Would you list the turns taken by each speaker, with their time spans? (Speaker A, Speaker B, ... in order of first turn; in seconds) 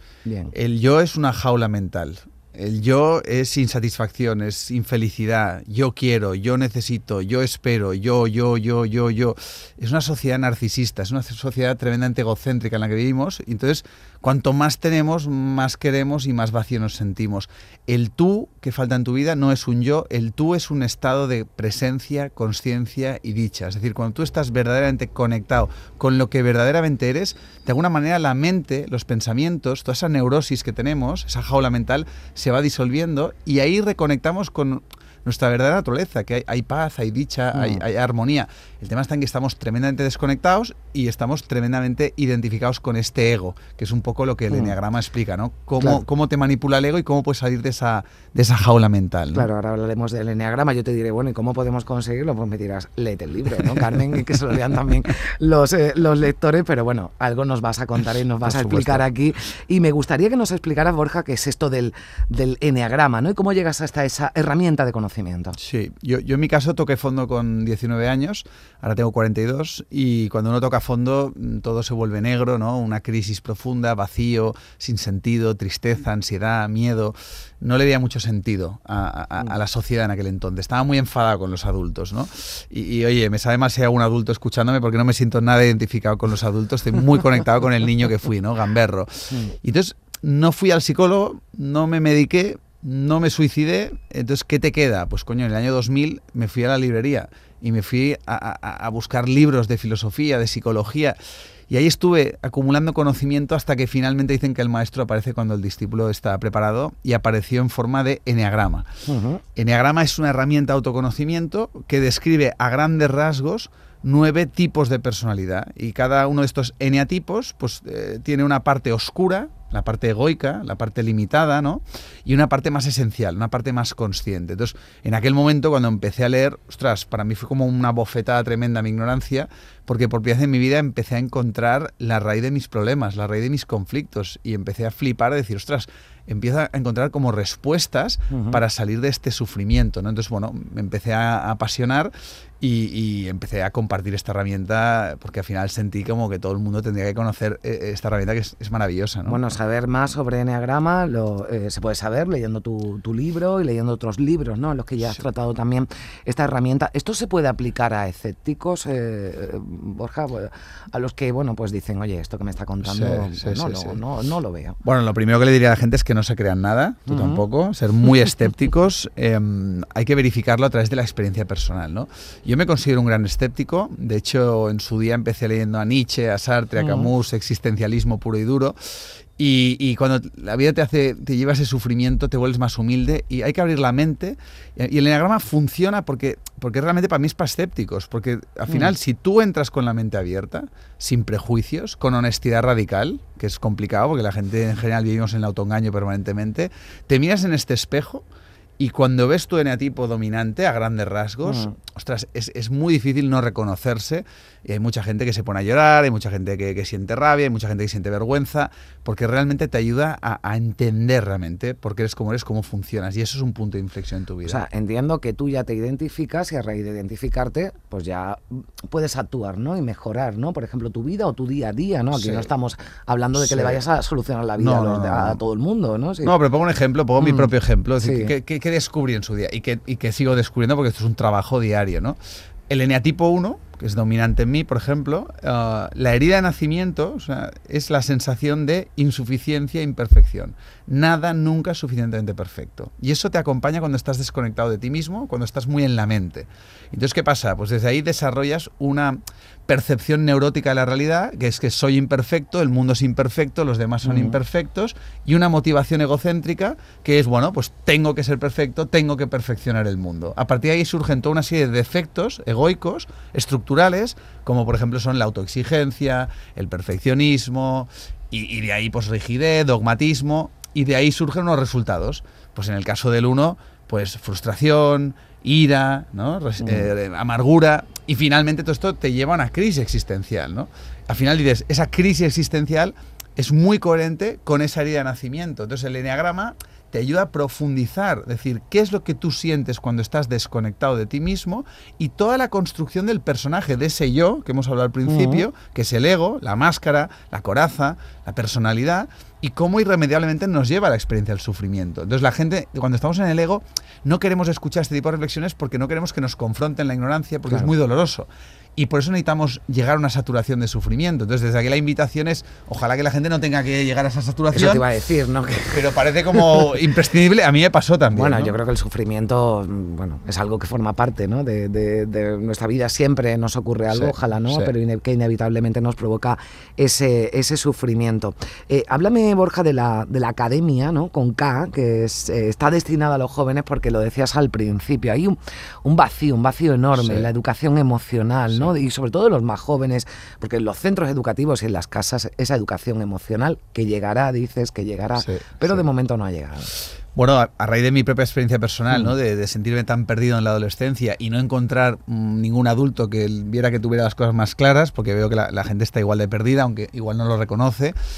Speaker A: 0.2-0.5, 37.5-37.8, 44.5-44.8, 49.3-65.6, 109.1-109.4, 138.3-138.6, 149.2-164.8, 167.1-167.4, 176.8-177.1, 201.4-201.7, 214.4-226.3, 227.2-228.3, 254.0-254.4, 276.6-276.9, 295.1-295.4, 307.5-307.7, 314.5-316.8, 318.1-346.7
Speaker B: 0.5-49.5, 58.4-59.0, 65.6-101.2, 101.7-108.9, 109.5-149.4, 162.8-164.0, 164.8-178.8, 179.4-198.2, 198.8-214.6, 222.1-222.5, 223.3-223.8, 224.6-225.4, 226.2-232.2, 232.7-314.9, 315.7-318.5, 323.9-324.7, 336.9-337.3, 345.2-345.9, 347.1-357.9